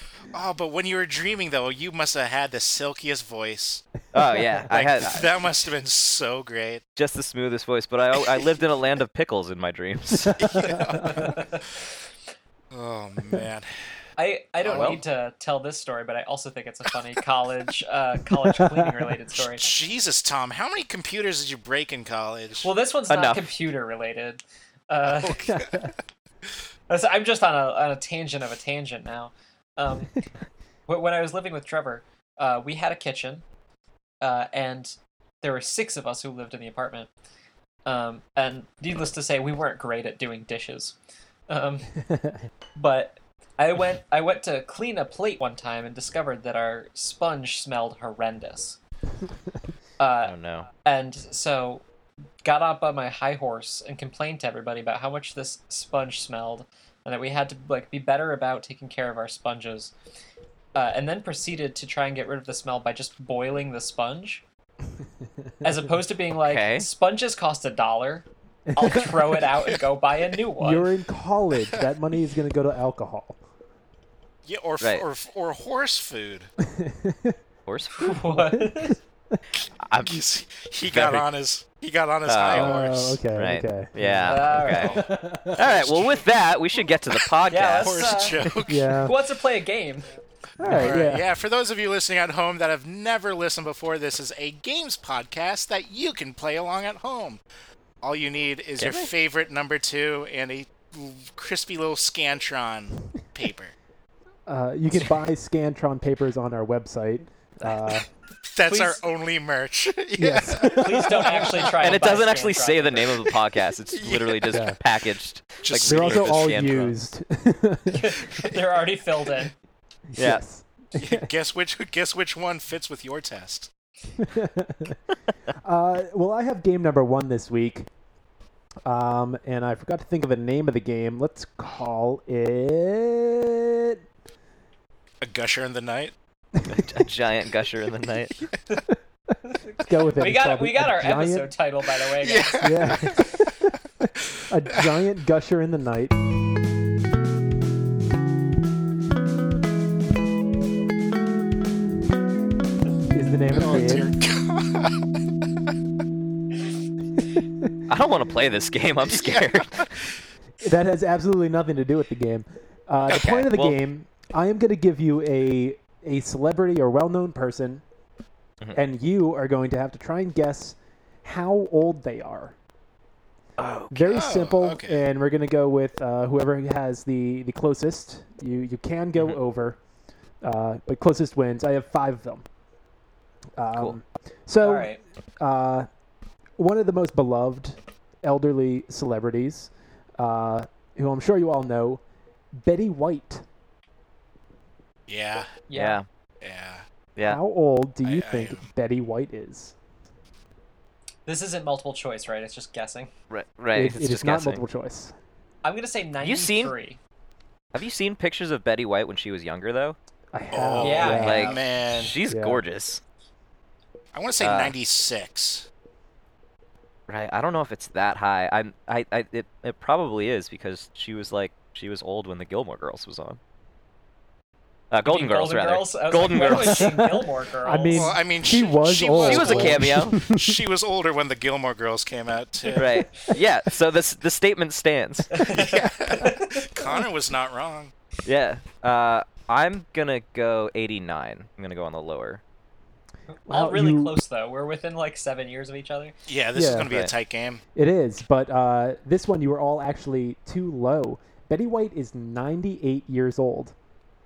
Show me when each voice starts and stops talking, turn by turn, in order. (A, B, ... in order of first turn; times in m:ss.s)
0:00.3-0:03.8 A
0:04.1-0:05.3 B
0:04.7-0:06.8 A
0:07.0-0:10.7 B
0:10.3-0:11.4 A
0:10.6-0:11.7 C
0:12.7-0:13.7 A
0:14.2-0:19.7 C
0:14.6-0:15.0 A
0:14.7-0:15.0 B
0:18.6-0:18.9 D
0:19.5-0:22.7 A
0:22.6-0:25.6 C
0:23.1-0:23.4 B
0:25.1-0:25.9 A
0:25.5-0:25.9 D
0:26.9-0:30.2 C
0:30.9-0:33.4 C
0:34.2-0:37.1 C
0:37.8-0:41.0 C
0:41.5-0:41.9 C
0:42.0-0:42.4 D
0:42.8-0:48.8 C
0:50.0-0:51.8 C
0:50.2-0:50.7 B
0:52.4-0:59.9 C
1:00.7-1:04.4 C
1:05.6-1:10.9 C
1:06.4-1:06.9 B
1:08.7-1:09.4 D
1:10.6-1:13.4 D
1:14.4-1:16.5 A
1:16.6-1:17.4 D
1:17.7-1:18.3 B
1:17.9-1:19.0 C
1:18.3-1:19.4 D
1:19.8-1:20.2 B
1:20.0-1:23.2 A
1:20.9-1:21.2 B
1:22.2-1:25.0 B
1:22.5-1:25.8 D
1:24.2-1:25.0 C
1:25.5-1:26.2 A
1:25.5-1:28.5 B
1:27.5-1:28.4 C
1:27.8-1:29.0 A
1:28.7-1:29.1 D
1:29.0-1:30.0 C
1:30.6-1:31.2 D
1:30.6-1:37.4 A
1:30.7-1:31.0 B
1:38.0-1:43.7 A
1:38.8-1:39.1 B
1:44.5-1:48.1 D
1:48.4-1:51.7 A
1:48.6-1:49.0 C
1:50.2-1:51.4 D
1:50.6-1:53.2 C
1:51.8-1:56.9 B
1:53.9-1:54.6 A
1:54.5-1:54.8 D
1:55.6-1:56.7 A
1:55.8-1:58.2 D
1:57.9-1:59.5 C
2:00.1-2:01.3 D
2:00.2-2:00.4 B
2:00.9-2:03.7 A
2:04.2-2:05.0 D
2:05.6-2:07.9 D
2:08.8-2:14.0 D
2:15.2-2:16.1 A
2:16.6-2:18.5 B
2:19.4-2:22.8 C
2:19.8-2:21.5 D
2:22.2-2:23.3 A
2:22.6-2:26.2 D
2:24.4-2:24.8 A
2:33.1-2:34.1 D
2:33.5-2:35.1 A
2:37.3-2:37.7 D
2:37.9-2:39.9 B
2:39.0-2:40.1 A
2:40.6-2:47.8 D
2:43.1-2:43.8 B
2:48.7-2:52.6 D
2:53.6-2:54.2 B
2:53.9-2:59.8 D
2:54.1-2:55.0 A
3:00.4-3:02.4 D
3:03.6-3:05.9 D
3:04.6-3:05.0 C
3:06.6-3:12.0 D
3:12.6-3:13.4 D
3:15.1-3:15.5 A
3:15.7-3:16.0 C
3:15.7-3:16.0 B
3:16.4-3:16.8 A
3:17.2-3:19.7 D
3:18.0-3:18.6 A
3:21.2-3:23.1 C
3:23.3-3:24.6 B
3:23.7-3:25.1 D
3:25.6-3:27.0 C
3:26.2-3:26.7 B
3:27.7-3:30.0 B
3:30.3-3:31.5 D
3:30.5-3:32.1 A
3:30.8-3:31.6 C
3:31.0-3:33.0 B
3:32.3-3:32.6 D
3:34.1-3:35.7 A
3:34.4-3:34.7 B
3:37.1-3:43.4 B
3:44.9-3:46.9 B
3:45.0-3:48.2 C
3:46.4-3:50.6 D
3:47.9-3:52.9 A
3:49.1-3:50.2 B
3:52.7-3:55.3 B
3:55.3-3:56.7 C
3:55.4-3:57.9 A
3:58.2-4:02.4 B
4:03.3-4:06.1 C
4:03.5-4:04.1 D
4:06.3-4:07.6 A
4:06.5-4:06.9 D
4:06.7-4:07.1 B
4:07.7-4:13.7 D